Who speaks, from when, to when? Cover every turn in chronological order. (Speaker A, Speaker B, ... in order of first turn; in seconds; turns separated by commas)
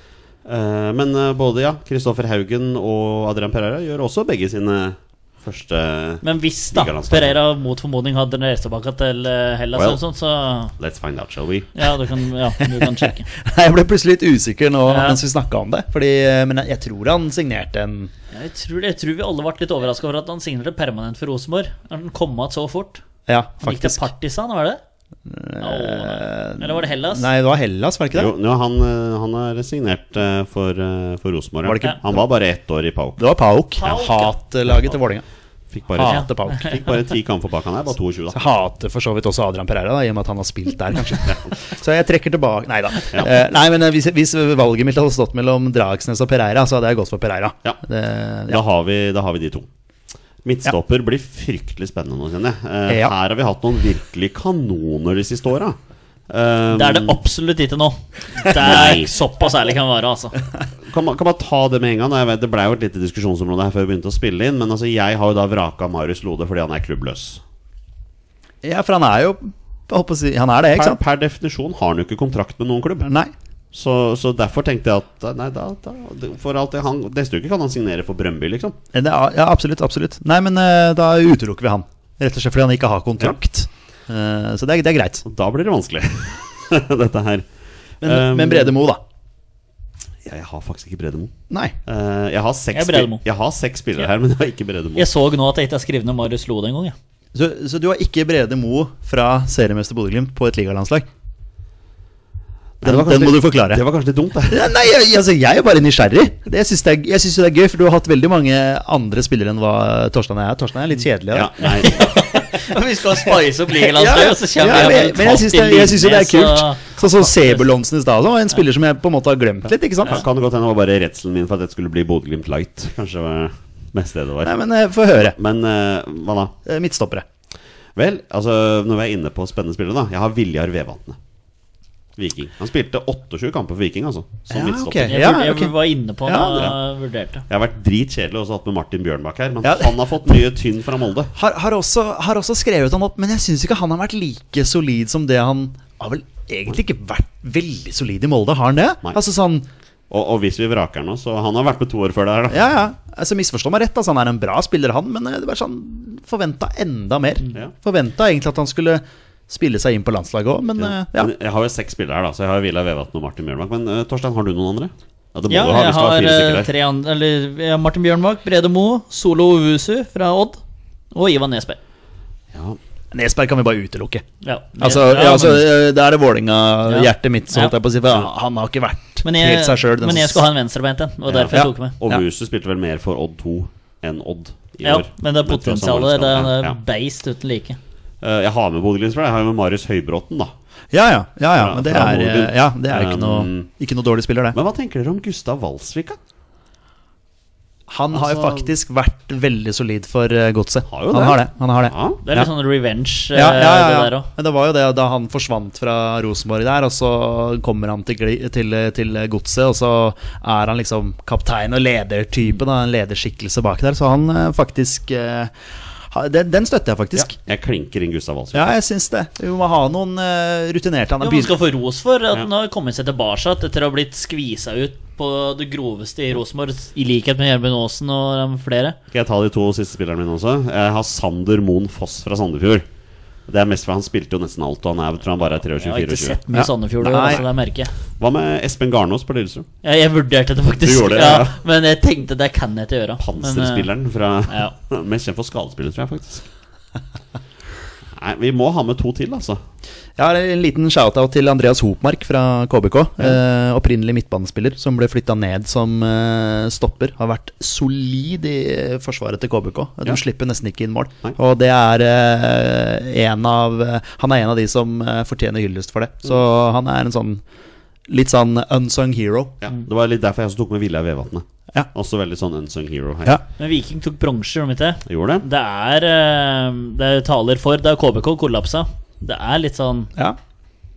Speaker A: 0.5-7.4, Speaker B: 6.2-10.7, Speaker A: 9.8-10.0, Speaker A: 10.8-11.9, Speaker B: 11.8-13.3, Speaker C: 12.6-18.1, Speaker B: 14.9-15.2, Speaker B: 18.3-23.0, Speaker C: 23.3-24.1, Speaker B: 23.6-24.8, Speaker C: 25.3-28.3, Speaker B: 25.6-27.3, Speaker A: 28.1-33.2, Speaker C: 31.6-32.2, Speaker C: 33.2-35.2, Speaker B: 33.8-34.3, Speaker A: 35.7-38.5, Speaker C: 35.9-36.8, Speaker B: 36.1-36.6, Speaker C: 38.3-48.6, Speaker A: 48.5-49.7, Speaker A: 50.4-55.8, Speaker C: 52.9-53.1, Speaker A: 56.3-57.2, Speaker B: 56.7-60.4, Speaker A: 58.5-59.1, Speaker A: 60.9-67.4, Speaker C: 68.6-71.0, Speaker A: 70.8-73.1, Speaker C: 73.0-73.3, Speaker A: 73.7-78.8, Speaker C: 78.9-85.2, Speaker A: 85.3-87.5, Speaker A: 88.0-88.8, Speaker C: 88.0-89.0, Speaker A: 90.2-91.3, Speaker C: 91.5-91.8, Speaker A: 91.9-95.1, Speaker B: 92.7-93.2, Speaker B: 95.0-97.0, Speaker C: 97.3-101.1, Speaker A: 102.8-104.6, Speaker C: 102.8-103.8, Speaker C: 104.5-111.9, Speaker A: 111.3-112.2, Speaker B: 111.6-117.7, Speaker C: 113.7-120.2, Speaker A: 120.0-124.6, Speaker C: 124.4-125.4, Speaker A: 125.2-126.5, Speaker C: 126.7-127.2, Speaker A: 128.0-131.2, Speaker A: 132.2-135.2, Speaker C: 134.5-136.7, Speaker B: 135.1-137.4, Speaker A: 137.5-141.3, Speaker C: 139.6-140.3, Speaker C: 141.3-149.7, Speaker A: 150.1-152.7, Speaker C: 152.5-161.3, Speaker A: 160.8-166.7, Speaker B: 165.5-170.6, Speaker B: 171.1-171.8, Speaker A: 172.5-172.8, Speaker C: 173.1-174.2, Speaker B: 174.4-175.7, Speaker C: 174.8-180.4, Speaker B: 176.9-177.7, Speaker B: 179.2-182.0, Speaker A: 181.3-186.8, Speaker C: 181.5-182.2, Speaker B: 184.8-187.8, Speaker A: 188.2-190.5, Speaker C: 190.9-194.6, Speaker A: 191.6-193.7, Speaker A: 194.5-196.2, Speaker C: 197.9-202.5, Speaker A: 198.1-198.7, Speaker A: 200.9-202.2, Speaker B: 202.2-204.3, Speaker C: 203.3-217.3, Speaker A: 217.2-218.7, Speaker C: 218.5-221.6, Speaker B: 221.2-229.0, Speaker A: 229.1-232.9, Speaker A: 233.5-236.4, Speaker B: 235.8-237.9, Speaker C: 236.5-237.4, Speaker A: 238.2-239.7, Speaker B: 239.8-243.9, Speaker A: 240.8-241.6, Speaker A: 243.2-246.5, Speaker B: 244.5-244.7, Speaker A: 248.2-249.6, Speaker C: 250.2-267.4, Speaker C: 268.1-269.6, Speaker A: 269.6-273.4, Speaker B: 273.6-280.1, Speaker A: 275.1-275.4